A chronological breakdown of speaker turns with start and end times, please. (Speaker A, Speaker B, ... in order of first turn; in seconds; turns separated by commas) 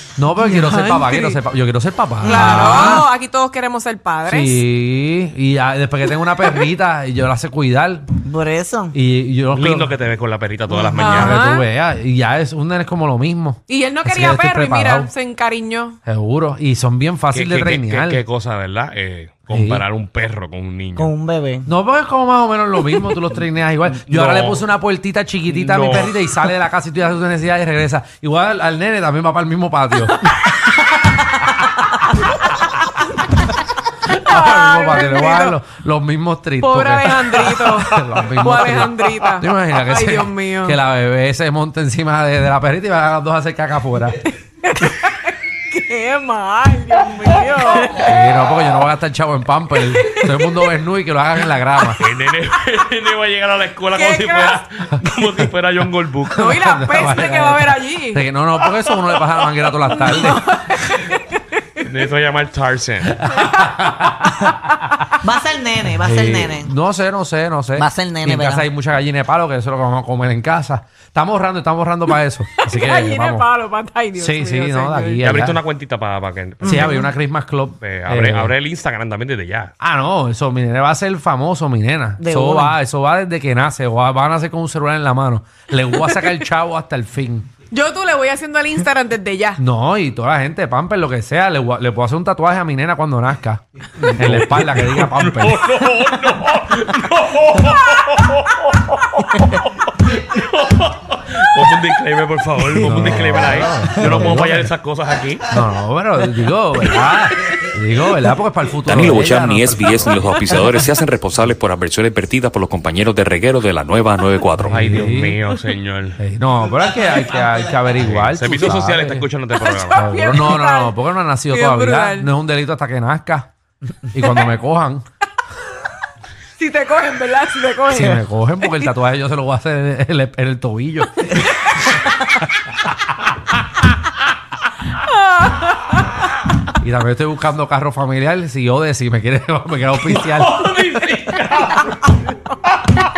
Speaker A: 0.2-3.1, Speaker B: 0.4-1.4, Speaker B: 2.2-4.6, Speaker A: 4.2-8.1, Speaker C: 8.2-8.9, Speaker A: 8.9-9.9, Speaker D: 9.5-11.4, Speaker C: 10.7-11.2, Speaker B: 11.0-11.7, Speaker A: 11.0-15.1, Speaker B: 13.7-16.0, Speaker A: 16.1-18.2, Speaker D: 17.3-21.1, Speaker A: 19.5-19.8, Speaker C: 21.0-21.7, Speaker A: 21.7-30.2, Speaker D: 23.9-24.7, Speaker D: 25.5-26.3, Speaker B: 34.2-35.6, Speaker A: 34.2-44.2, Speaker B: 36.6-40.8, Speaker B: 44.6-48.2, Speaker A: 47.9-52.0, Speaker B: 50.0-50.6, Speaker D: 52.0-56.5, Speaker B: 54.0-54.6, Speaker B: 56.3-58.2, Speaker A: 56.4-60.5, Speaker B: 59.9-61.5, Speaker D: 61.8-63.2, Speaker A: 63.1-64.5, Speaker B: 63.3-64.3, Speaker C: 65.2-66.7, Speaker A: 65.9-73.5, Speaker C: 67.8-68.7, Speaker B: 72.6-75.2, Speaker A: 74.2-75.6, Speaker D: 75.2-77.1, Speaker C: 76.6-77.0, Speaker A: 76.6-78.5, Speaker D: 77.8-79.7, Speaker A: 79.8-87.5, Speaker C: 82.2-82.8, Speaker B: 85.9-86.3, Speaker B: 87.7-89.6, Speaker A: 89.6-93.6, Speaker D: 94.0-105.5, Speaker A: 94.1-95.8, Speaker A: 102.7-104.7, Speaker A: 105.5-110.2, Speaker E: 108.9-114.8, Speaker A: 114.6-115.4, Speaker D: 114.7-116.2, Speaker A: 116.2-119.3, Speaker D: 118.0-120.1, Speaker B: 119.6-122.3, Speaker A: 120.0-123.5, Speaker A: 124.1-125.0, Speaker B: 126.6-129.0, Speaker A: 127.9-131.5, Speaker B: 134.9-136.2, Speaker A: 136.8-140.7, Speaker D: 140.0-142.4